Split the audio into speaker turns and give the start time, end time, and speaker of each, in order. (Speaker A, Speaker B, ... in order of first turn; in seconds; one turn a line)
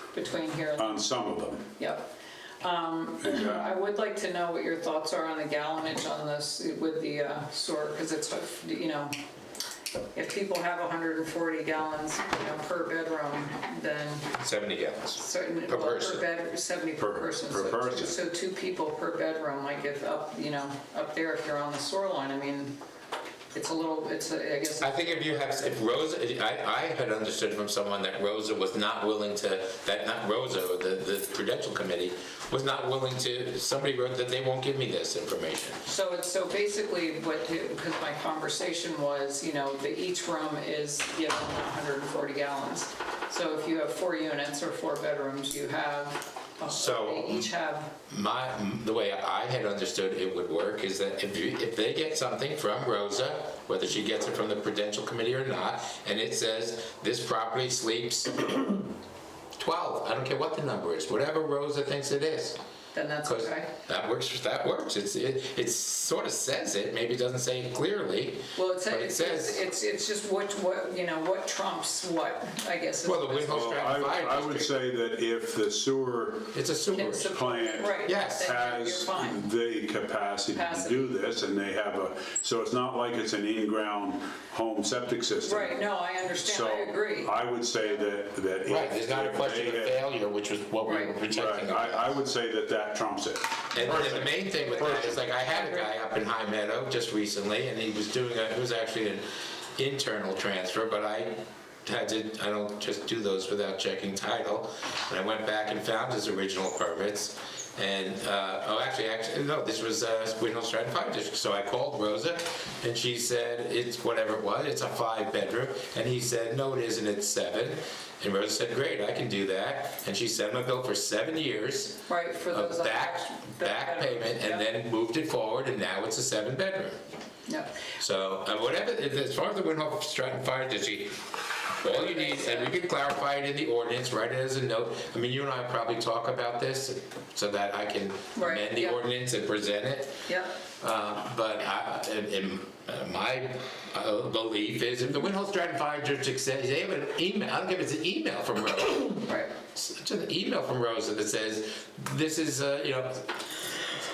Speaker A: 0.1-1.1
Speaker B: 0.8-1.7
Speaker A: 1.8-9.1
Speaker B: 3.2-3.7
Speaker A: 10.1-14.3
Speaker C: 14.4-16.2
Speaker A: 15.2-22.8
Speaker B: 17.0-18.1
Speaker A: 23.5-25.8
Speaker C: 24.8-35.8
Speaker A: 35.9-47.9
Speaker C: 46.7-47.5
Speaker C: 48.1-58.8
Speaker C: 59.6-62.6
Speaker A: 62.9-63.7
Speaker C: 63.2-69.6
Speaker A: 68.5-74.2
Speaker C: 73.0-74.7
Speaker B: 73.5-76.5
Speaker C: 76.5-78.5
Speaker A: 76.9-79.5
Speaker B: 77.3-85.8
Speaker A: 80.5-81.1
Speaker A: 85.4-87.4
Speaker B: 86.4-90.0
Speaker C: 88.7-92.1
Speaker A: 90.8-91.2
Speaker B: 91.2-95.2
Speaker C: 93.7-99.2
Speaker A: 95.5-95.8
Speaker C: 99.8-127.0
Speaker A: 122.1-124.7
Speaker A: 127.5-127.8
Speaker C: 128.0-140.2
Speaker A: 131.8-132.8
Speaker A: 138.3-139.0
Speaker A: 140.2-140.5
Speaker C: 140.8-153.3
Speaker A: 149.3-149.5